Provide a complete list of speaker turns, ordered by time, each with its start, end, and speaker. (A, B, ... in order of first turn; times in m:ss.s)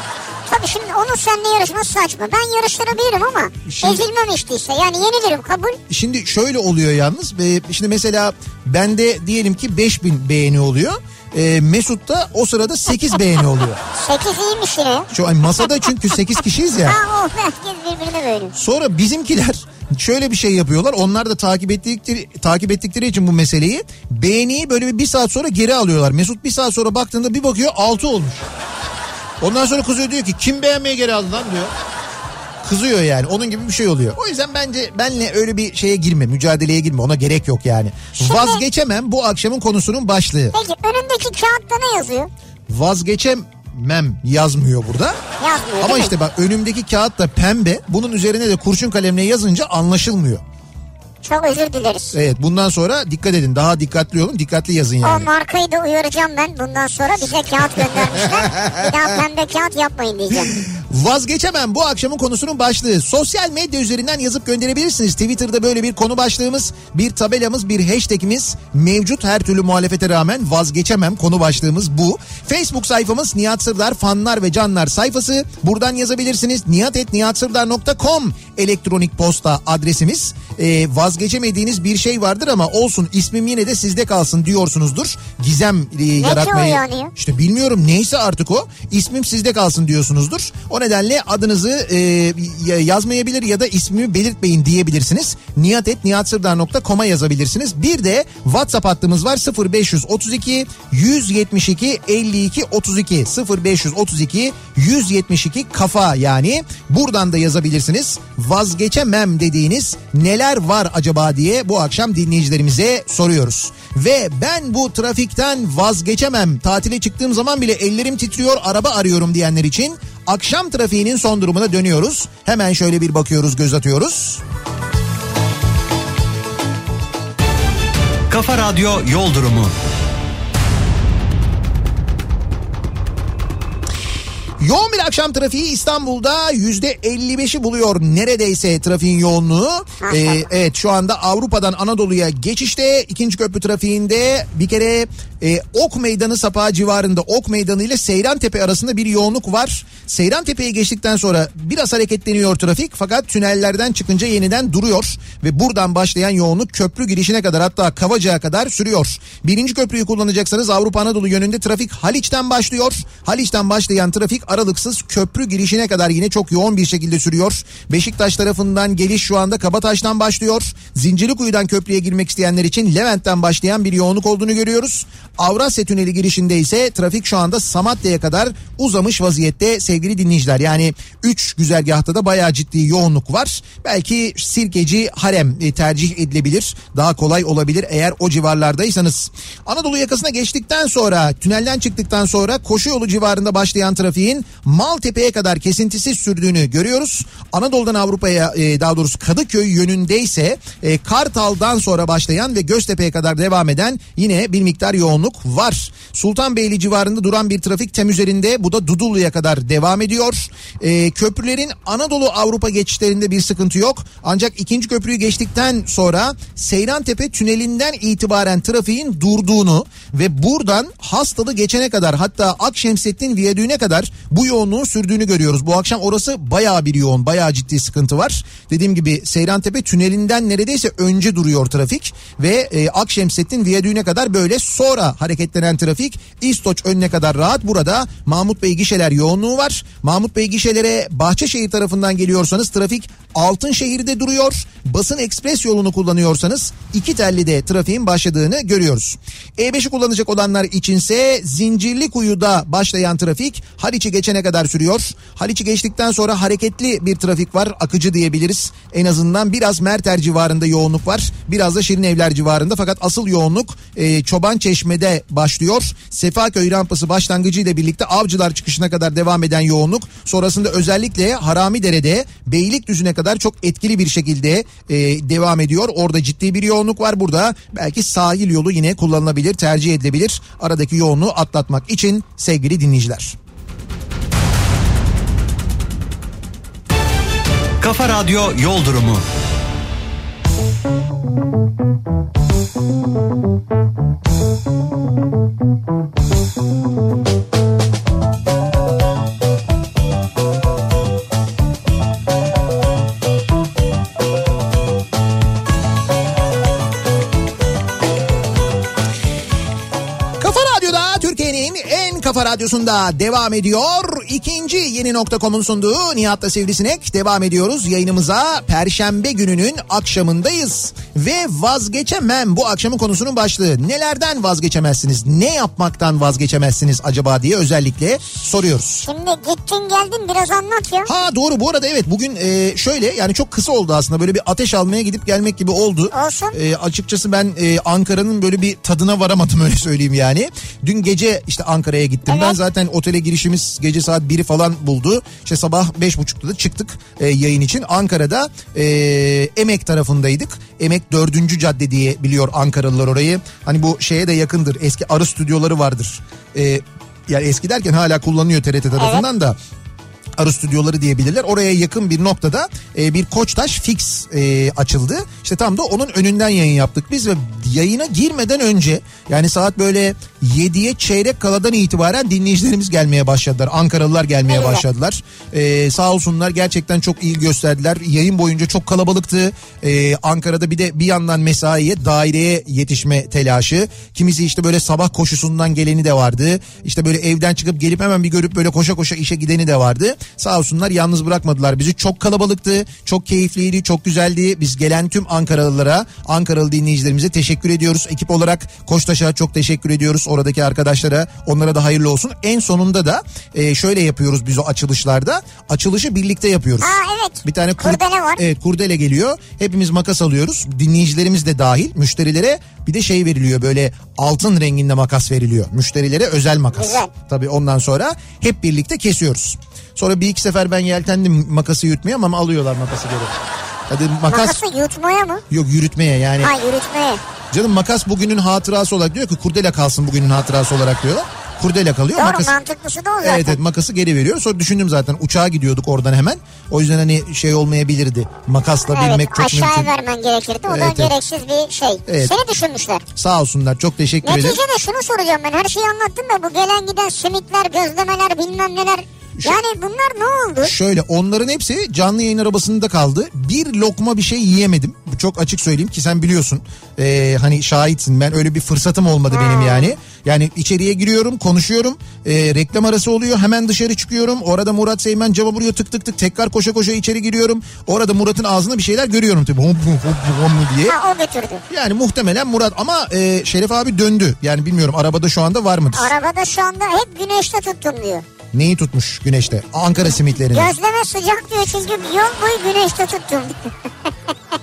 0:00.5-0:05.8 A
0:03.6-0:04.0 B
0:05.9-0:13.8 B
0:13.9-0:15.1 A
0:15.1-0:17.0 B
0:16.8-0:18.6 A
0:18.6-0:28.5 B
0:29.4-0:31.7 B
0:32.6-0:40.6 B
0:38.2-0:38.6 A
0:40.5-0:42.3 A
0:42.7-0:45.2 B
0:45.4-0:46.1 A
0:45.8-0:50.4 B
0:51.2-0:52.2 A
0:52.1-0:55.3 B
0:55.0-1:00.6 A
0:58.2-0:59.0 B
1:00.5-2:04.4 B
1:26.2-1:27.1 A
2:08.3-2:09.7 C
2:14.6-4:43.4 B
2:20.0-2:20.4 A
4:47.8-4:49.2 C
5:10.4-5:29.1 B
5:29.0-5:31.1 A
5:31.1-5:59.6 B
5:36.1-5:36.6 A
5:42.3-5:42.6 A
5:59.0-5:59.2 A
6:00.4-7:03.3 B
6:14.5-6:14.8 A
6:46.8-6:48.4 A
6:56.8-6:57.1 A
7:03.9-7:04.6 B
7:04.3-7:05.4 A
7:05.5-7:06.5 B
7:06.4-7:07.2 A
7:07.5-7:12.5 B
7:12.2-7:13.6 A
7:13.2-7:19.9 B
7:18.9-7:23.0 A
7:20.7-7:21.2 B
7:22.1-7:22.3 B
7:23.2-7:24.6 B
7:24.2-7:30.7 A
7:30.6-7:51.0 B
7:39.3-7:40.0 A
7:50.9-7:51.6 A
7:51.7-7:56.1 B
7:55.9-7:58.3 A
7:58.5-8:00.7 B
8:00.5-8:04.1 A